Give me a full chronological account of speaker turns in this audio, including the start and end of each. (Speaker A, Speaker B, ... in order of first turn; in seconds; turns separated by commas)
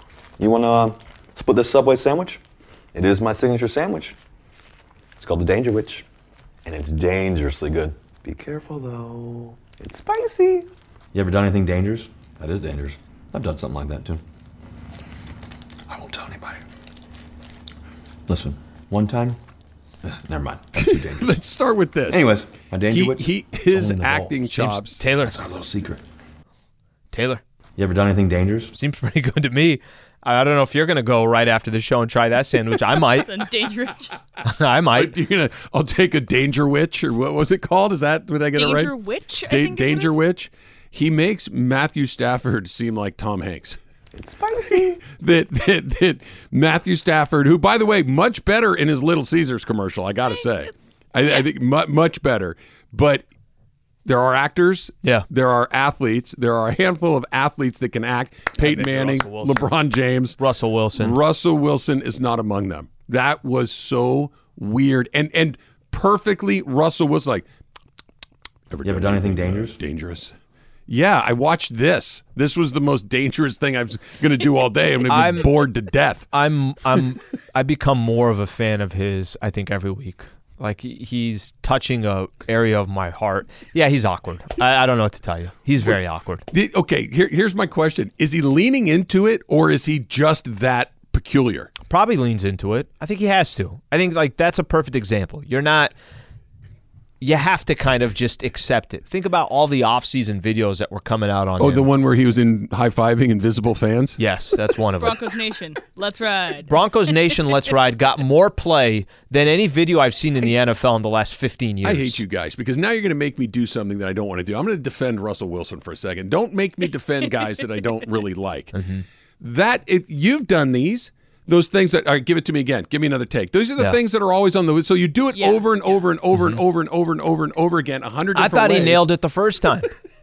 Speaker A: 0.4-2.4, Speaker A: 2.9-4.2, Speaker A: 5.2-6.0, Speaker A: 6.6-14.2, Speaker A: 15.9-16.6, Speaker A: 18.3-19.4, Speaker A: 20.0-21.4, Speaker B: 20.8-22.3, Speaker A: 22.1-26.0, Speaker B: 22.9-25.0, Speaker C: 24.5-25.4, Speaker C: 27.1-27.4, Speaker A: 27.8-28.7, Speaker C: 28.7-33.3, Speaker D: 33.0-34.2, Speaker C: 34.4-35.1, Speaker B: 34.9-38.9, Speaker D: 38.5-40.2, Speaker B: 39.5-43.8, Speaker A: 44.1-45.0, Speaker B: 44.7-53.2, Speaker B: 54.0-60.4, Speaker C: 58.6-59.7, Speaker C: 60.4-61.2, Speaker B: 61.0-67.5, Speaker B: 68.7-70.3, Speaker A: 68.8-69.8, Speaker B: 70.9-76.3, Speaker C: 75.1-75.5, Speaker C: 76.3-86.4, Speaker B: 86.5-91.7, Speaker C: 91.9-95.9, Speaker C: 97.2-101.9, Speaker B: 101.6-104.2, Speaker C: 104.2-105.2, Speaker D: 105.0-106.8, Speaker C: 106.7-112.2, Speaker B: 111.8-118.7, Speaker C: 118.7-119.0, Speaker B: 119.4-129.1, Speaker D: 125.3-126.1, Speaker C: 126.3-126.6, Speaker C: 128.3-129.9